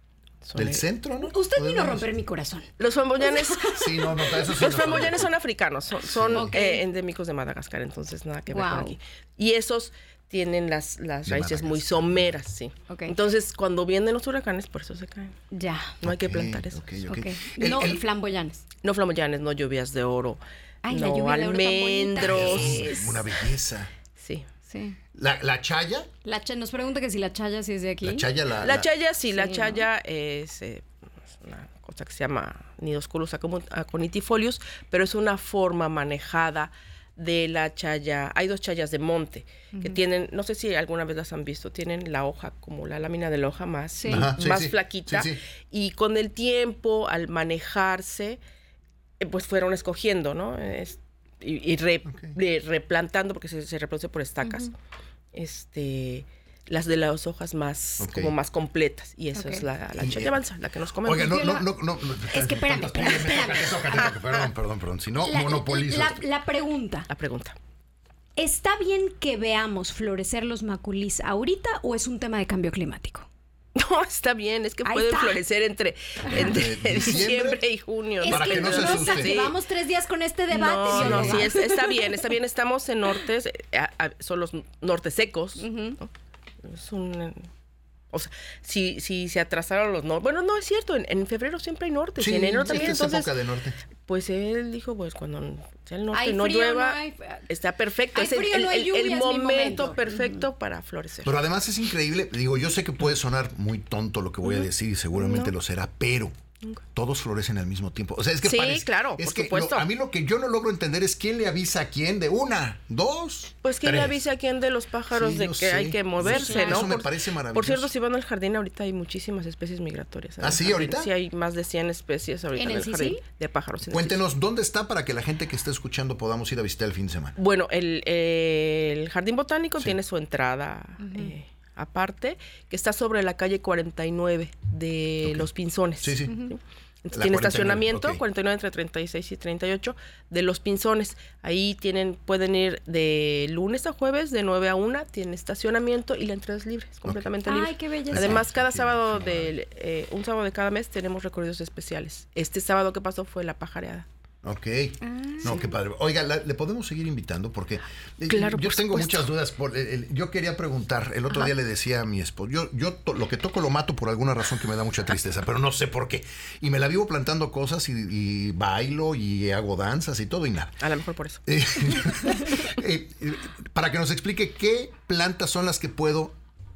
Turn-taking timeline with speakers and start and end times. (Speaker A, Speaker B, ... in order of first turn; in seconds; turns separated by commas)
Speaker A: 0.4-0.8, Speaker B: 0.6-2.1, Speaker C: 1.2-2.7, Speaker A: 2.8-15.3, Speaker C: 3.2-4.5, Speaker B: 3.7-5.3, Speaker B: 6.0-6.5, Speaker C: 6.3-6.8, Speaker C: 8.5-9.0, Speaker B: 11.2-12.4, Speaker C: 12.9-13.1, Speaker C: 15.5-15.9, Speaker A: 16.0-16.9, Speaker B: 16.0-18.0, Speaker C: 17.0-18.6, Speaker A: 18.8-23.0, Speaker C: 20.8-23.4, Speaker B: 22.2-23.9, Speaker A: 24.2-24.5, Speaker C: 24.6-25.0, Speaker B: 25.1-26.1, Speaker C: 26.2-28.3, Speaker B: 28.0-28.9, Speaker A: 28.6-30.8, Speaker C: 29.3-29.9, Speaker A: 31.4-48.4, Speaker C: 39.7-40.0, Speaker C: 44.0-44.3, Speaker B: 44.1-45.4, Speaker A: 49.2-54.7, Speaker B: 52.1-52.3, Speaker C: 54.4-54.7, Speaker A: 55.3-61.6, Speaker B: 58.0-58.3, Speaker C: 59.3-59.6, Speaker B: 60.0-60.4, Speaker B: 61.0-66.2, Speaker C: 61.2-61.7, Speaker C: 62.2-64.1, Speaker C: 65.2-67.1, Speaker A: 67.1-67.5, Speaker C: 68.3-73.3, Speaker A: 73.8-79.6, Speaker C: 74.8-75.4, Speaker B: 76.3-77.6, Speaker C: 78.2-82.1, Speaker B: 78.2-79.5, Speaker A: 80.5-86.1, Speaker B: 80.9-81.5, Speaker C: 85.6-86.0, Speaker A: 86.7-87.4, Speaker A: 88.1-93.4, Speaker B: 92.2-93.8, Speaker A: 94.0-101.4, Speaker C: 96.1-97.4, Speaker C: 98.1-100.4, Speaker B: 101.2-106.3, Speaker C: 105.2-105.5, Speaker B: 107.0-114.2, Speaker A: 108.4-109.9, Speaker A: 113.6-124.2, Speaker B: 115.1-117.9, Speaker C: 116.2-117.1, Speaker B: 120.4-121.1, Speaker C: 122.5-123.2, Speaker B: 123.8-127.3, Speaker A: 127.3-154.1, Speaker C: 131.0-131.3, Speaker B: 136.0-136.4, Speaker C: 136.2-136.5, Speaker B: 137.1-138.2, Speaker C: 147.4-148.4, Speaker B: 148.1-149.5, Speaker B: 154.4-170.8, Speaker C: 155.0-155.7, Speaker A: 158.3-159.3, Speaker A: 170.8-171.4, Speaker B: 171.5-176.3